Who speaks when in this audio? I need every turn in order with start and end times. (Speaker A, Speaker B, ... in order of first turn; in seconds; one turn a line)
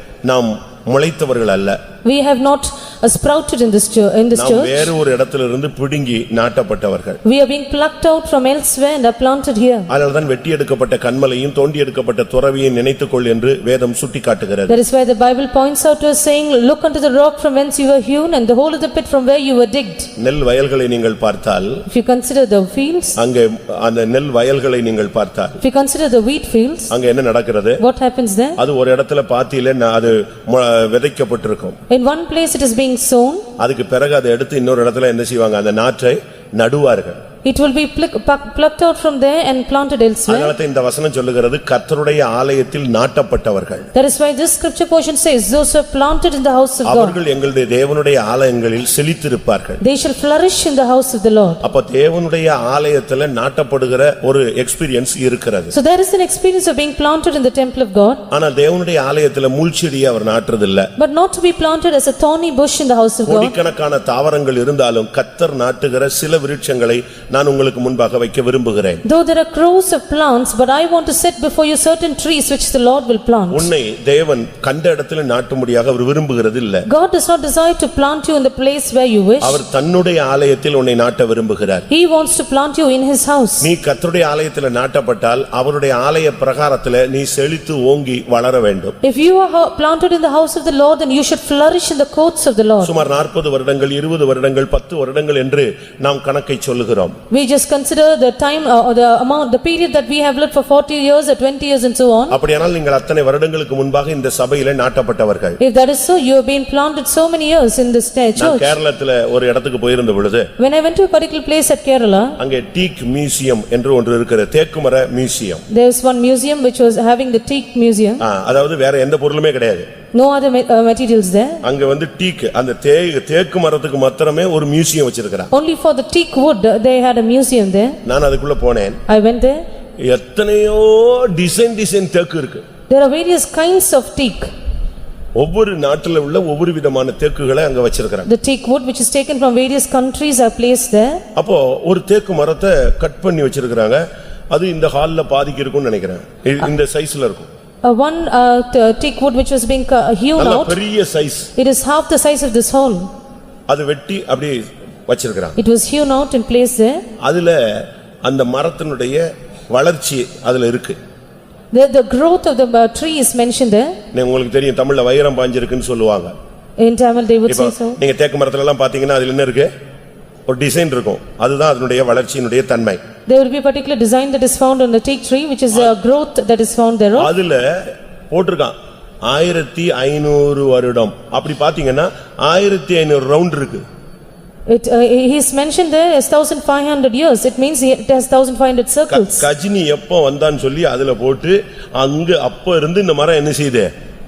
Speaker A: 0.2-1.8
Speaker B: 2.0-4.9
Speaker A: 4.3-7.2
Speaker B: 7.2-9.9
Speaker A: 9.9-14.8
Speaker B: 14.7-20.1
Speaker A: 20.2-21.9
Speaker B: 21.9-23.2
Speaker A: 23.2-25.6
Speaker B: 25.6-26.9
Speaker A: 26.9-27.8
Speaker B: 27.8-28.6
Speaker A: 28.6-31.8
Speaker B: 31.9-33.5
Speaker A: 33.6-37.2
Speaker B: 37.5-40.5
Speaker A: 40.3-43.9
Speaker B: 43.9-47.2
Speaker A: 46.8-49.8
Speaker B: 49.8-51.6
Speaker A: 51.6-55.7
Speaker B: 55.7-58.2
Speaker A: 58.3-60.9
Speaker B: 61.0-63.5
Speaker A: 63.3-69.0
Speaker B: 69.0-73.7
Speaker A: 73.5-76.9
Speaker B: 76.9-79.6
Speaker A: 79.4-81.9
Speaker B: 81.9-83.7
Speaker A: 83.6-89.0
Speaker B: 89.0-92.9
Speaker A: 92.8-97.2
Speaker B: 97.3-102.4
Speaker A: 102.3-105.6
Speaker B: 105.6-108.8
Speaker A: 108.4-110.5
Speaker B: 110.6-112.4
Speaker A: 112.4-115.6
Speaker B: 115.7-118.2
Speaker A: 118.2-119.9
Speaker B: 120.1-121.6
Speaker A: 121.6-125.5
Speaker B: 125.5-128.0
Speaker A: 128.1-129.0
Speaker B: 129.1-129.6
Speaker A: 130.0-132.6
Speaker B: 132.9-134.5
Speaker A: 135.4-138.3
Speaker B: 138.3-141.2
Speaker A: 141.4-147.5
Speaker B: 147.8-150.8
Speaker A: 150.4-151.5
Speaker B: 151.6-153.1
Speaker A: 153.7-155.6
Speaker B: 155.6-157.0
Speaker A: 157.2-161.0
Speaker B: 161.7-164.0
Speaker A: 164.1-166.3
Speaker B: 166.8-168.0
Speaker A: 167.5-169.7
Speaker A: 170.5-173.0
Speaker B: 173.3-177.3
Speaker A: 177.2-183.8
Speaker B: 184.7-189.4
Speaker A: 189.1-193.9